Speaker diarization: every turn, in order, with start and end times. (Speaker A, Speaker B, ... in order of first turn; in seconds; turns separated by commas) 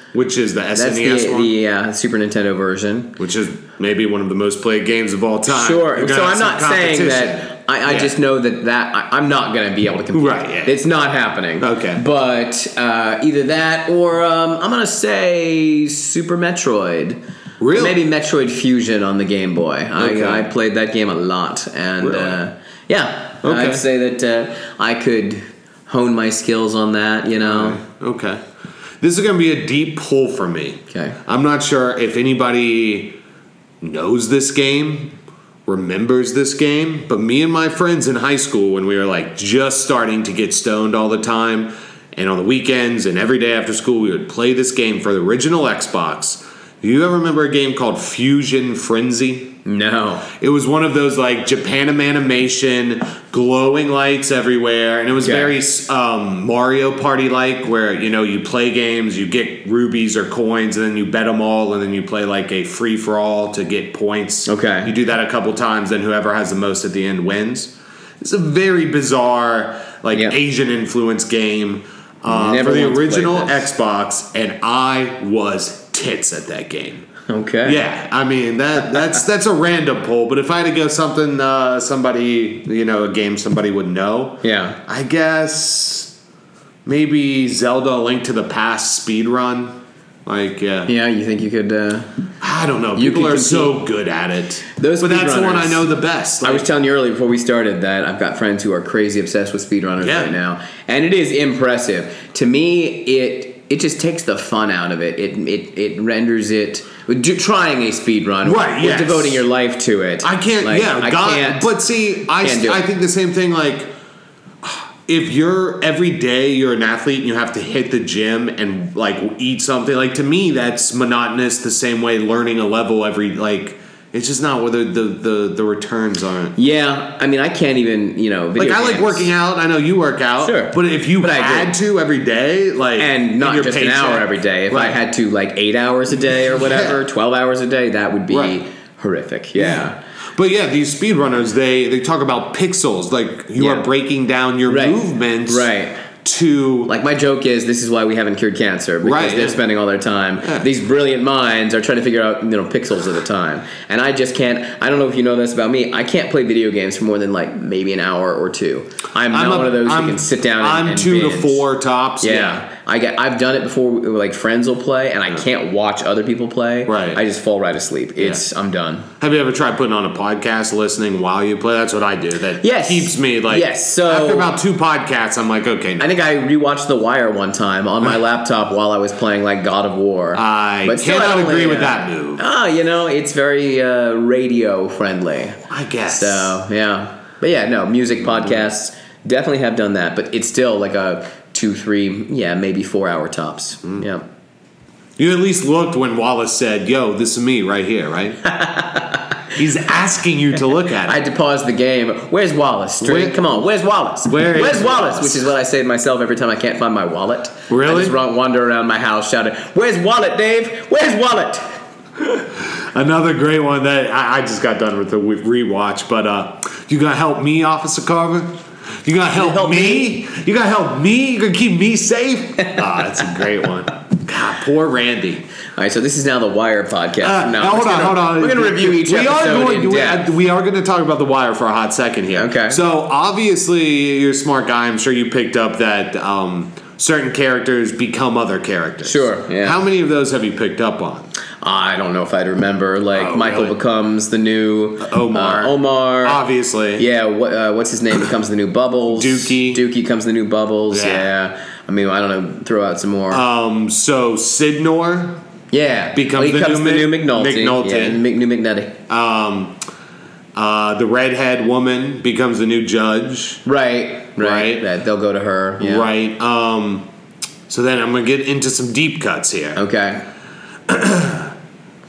Speaker A: 0.1-1.5, Speaker B: 0.8-3.1, Speaker A: 3.2-8.1, Speaker B: 5.5-17.2, Speaker A: 10.1-10.8, Speaker A: 11.6-12.0, Speaker A: 17.6-18.0, Speaker B: 17.7-27.8, Speaker A: 20.0-20.4, Speaker A: 22.0-22.4, Speaker A: 23.4-23.8, Speaker A: 27.4-28.4, Speaker A: 29.0-33.2, Speaker B: 30.9-31.2, Speaker A: 33.8-35.1, Speaker A: 35.7-49.6, Speaker B: 49.6-50.3, Speaker A: 50.3-77.1, Speaker B: 55.2-55.5, Speaker B: 64.5-64.9, Speaker B: 72.3-73.7, Speaker B: 77.3-77.8, Speaker A: 77.7-86.1, Speaker B: 84.4-84.8, Speaker A: 86.8-90.9, Speaker B: 90.9-92.1, Speaker A: 92.4-96.7, Speaker B: 93.0-93.8, Speaker B: 94.8-95.9, Speaker B: 96.4-111.7, Speaker A: 100.0-100.3, Speaker A: 108.5-109.5, Speaker A: 110.2-113.9, Speaker B: 112.4-112.8, Speaker A: 114.6-126.5, Speaker B: 126.6-129.3, Speaker A: 128.6-135.0, Speaker B: 130.4-131.8, Speaker B: 133.0-140.0, Speaker A: 136.3-137.0, Speaker A: 138.3-138.6, Speaker A: 139.6-145.7, Speaker B: 143.6-143.9, Speaker B: 144.7-146.0, Speaker A: 146.2-146.9, Speaker B: 146.9-161.7, Speaker A: 149.0-149.6, Speaker A: 150.4-150.7, Speaker A: 159.3-162.6, Speaker B: 162.2-169.1, Speaker A: 166.9-167.2, Speaker A: 169.2-176.1, Speaker B: 172.6-174.5, Speaker B: 176.0-194.3, Speaker A: 180.3-182.4, Speaker A: 185.7-186.6, Speaker A: 195.2-198.4, Speaker B: 198.5-199.2, Speaker A: 199.5-201.2, Speaker B: 201.0-211.8, Speaker A: 203.0-203.6, Speaker A: 204.3-205.5, Speaker A: 207.7-208.2, Speaker A: 212.2-225.5, Speaker B: 219.3-220.1, Speaker B: 225.8-230.3, Speaker A: 227.2-241.3, Speaker B: 232.3-232.8, Speaker B: 239.1-239.8, Speaker B: 241.6-246.4, Speaker A: 243.1-243.8, Speaker A: 245.0-247.1, Speaker B: 247.0-253.4, Speaker A: 249.1-249.8, Speaker A: 250.9-251.3, Speaker A: 253.3-255.4, Speaker B: 255.7-259.0, Speaker A: 256.1-258.2, Speaker A: 259.1-259.8, Speaker A: 260.6-263.6, Speaker B: 263.7-266.1, Speaker A: 264.4-264.9, Speaker A: 265.8-267.1, Speaker A: 267.7-269.8, Speaker B: 269.8-270.2, Speaker A: 270.9-271.5